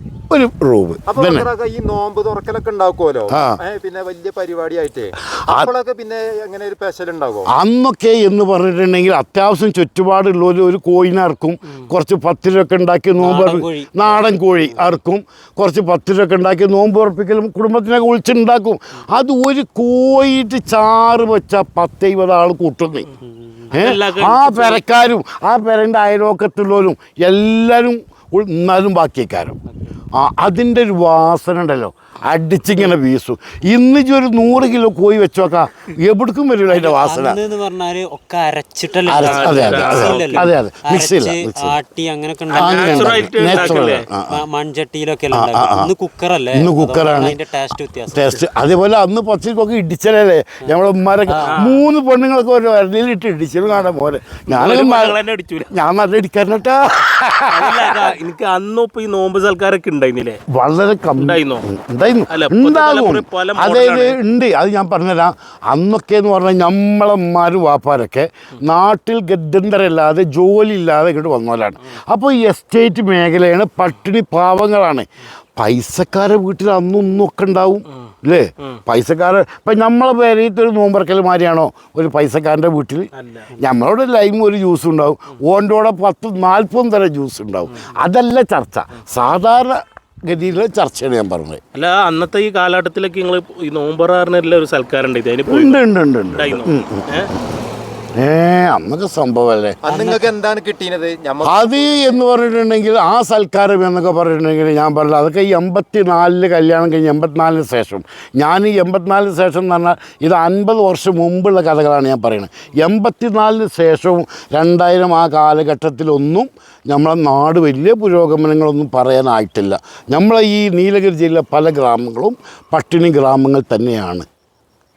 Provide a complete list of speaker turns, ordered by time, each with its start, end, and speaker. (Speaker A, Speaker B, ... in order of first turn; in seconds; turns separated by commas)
Speaker A: 0.3-1.5, Speaker B: 1.1-7.5, Speaker A: 3.3-3.6, Speaker A: 7.5-23.1, Speaker C: 13.2-14.9, Speaker C: 23.2-23.7, Speaker D: 23.7-24.9, Speaker A: 23.7-29.6, Speaker A: 30.1-37.4, Speaker C: 36.7-48.3, Speaker A: 39.1-41.8, Speaker D: 39.2-40.5, Speaker D: 42.5-44.0, Speaker A: 42.6-44.4, Speaker A: 45.3-45.9, Speaker A: 46.5-47.4, Speaker A: 48.1-55.2, Speaker C: 51.3-51.9, Speaker D: 51.5-51.8, Speaker D: 54.5-55.7, Speaker A: 55.7-58.0, Speaker D: 57.5-60.4, Speaker A: 60.5-91.6, Speaker D: 61.2-61.6, Speaker D: 62.3-64.2, Speaker D: 83.2-83.5, Speaker D: 91.7-95.8, Speaker A: 95.5-97.1, Speaker D: 96.3-97.3, Speaker A: 98.2-99.8, Speaker B: 99.8-102.2, Speaker C: 99.9-100.2, Speaker A: 101.4-124.3